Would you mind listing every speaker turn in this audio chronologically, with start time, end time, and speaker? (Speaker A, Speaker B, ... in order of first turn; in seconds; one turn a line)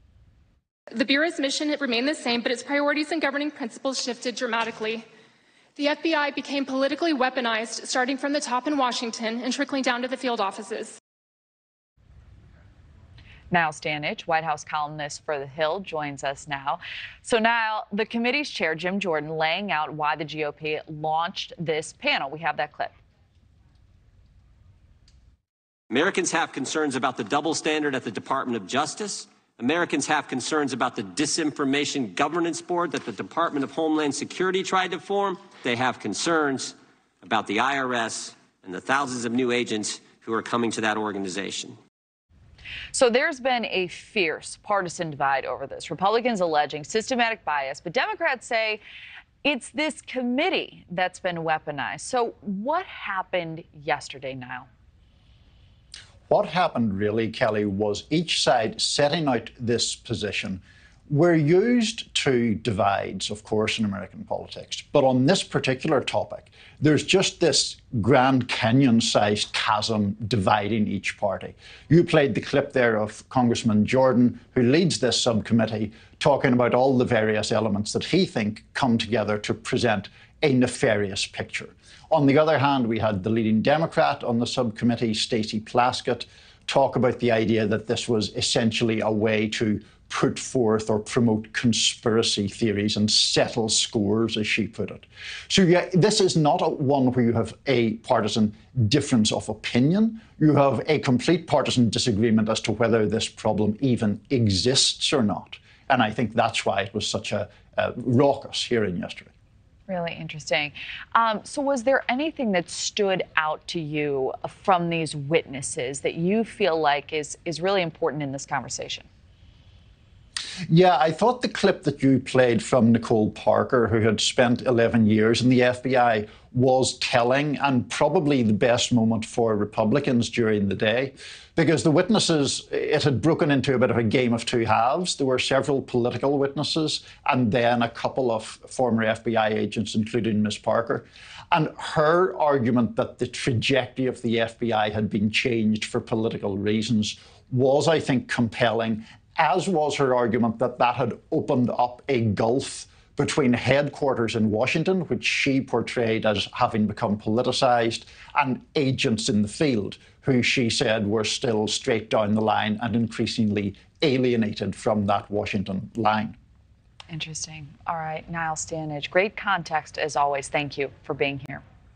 Speaker A: 1.0-5.0
Speaker A: 5.8-11.0
Speaker B: 13.5-22.9
Speaker C: 25.9-41.8
Speaker B: 42.9-48.8
Speaker B: 49.4-54.7
Speaker D: 56.3-109.3
Speaker B: 109.9-119.1
Speaker D: 120.7-166.3
Speaker B: 167.1-171.6